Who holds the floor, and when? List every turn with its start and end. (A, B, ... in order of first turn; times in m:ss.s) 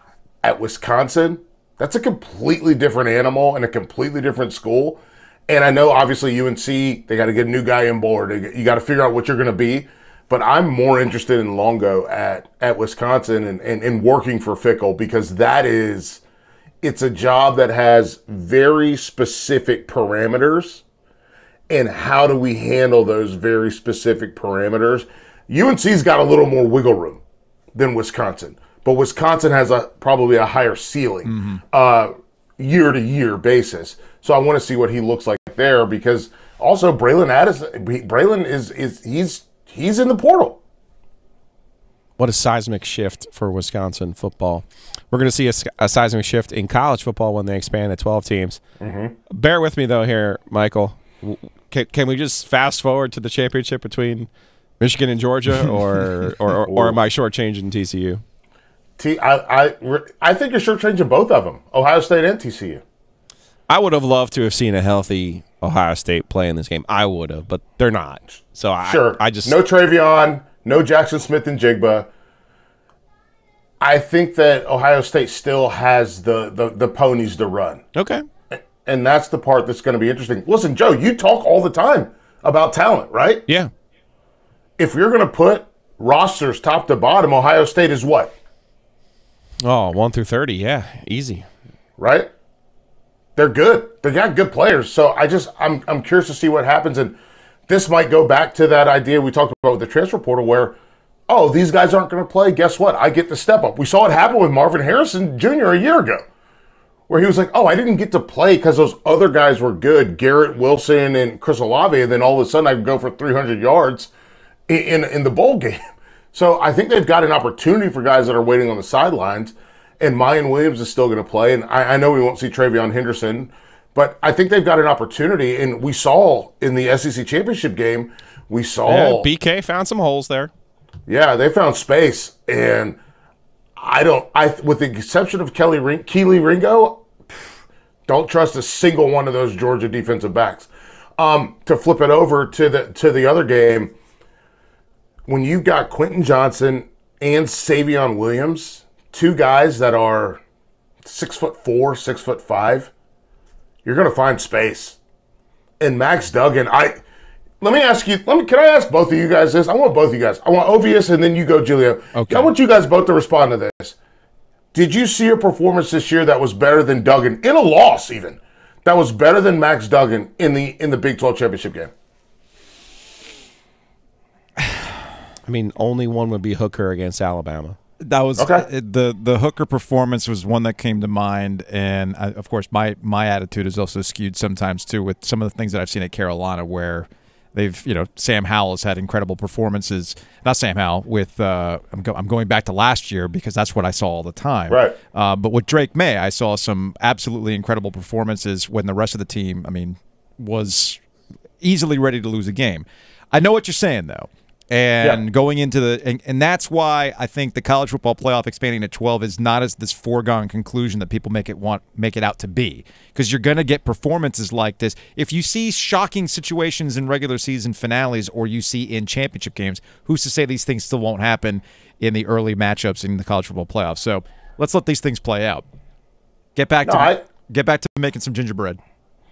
0:00.4-0:16.2 A
0:16.8-0:20.8 A
0:21.7-0:27.2 A
0:27.8-0:40.6 A
0:31.3-0:31.6 B
0:42.2-0:48.6 C
0:48.8-0:49.2 A
0:49.3-0:54.3 C
0:54.8-0:58.2 C
0:56.7-0:57.0 A
0:59.0-1:02.8 A
1:03.7-1:09.6 C
1:08.8-1:12.1 A
1:13.8-1:17.8 A
1:17.9-1:18.2 C
1:18.5-1:23.4 A
1:24.8-1:28.3 A
1:29.6-1:31.4 C
1:32.0-1:32.3 A
1:33.4-1:37.2 A
1:37.7-1:40.8 A
1:41.3-1:46.2 A
1:47.1-1:54.1 A
1:54.7-1:55.8 A
1:56.3-2:09.3 A
2:08.9-2:10.5 C
2:11.1-2:13.0 A
2:13.8-2:17.1 A
2:18.1-2:23.9 A
2:25.2-2:30.4 A
2:31.0-2:32.9 A
2:33.8-2:35.0 A
2:35.8-2:37.0 A
2:37.6-2:44.0 A
2:42.1-2:42.5 B
2:44.7-2:51.9 A
2:55.4-2:57.8 C
2:58.0-3:21.0 B
2:58.4-2:58.7 A
3:14.7-3:15.0 A
3:21.6-3:45.6 B
3:46.6-3:48.8 B
3:46.8-3:47.2 A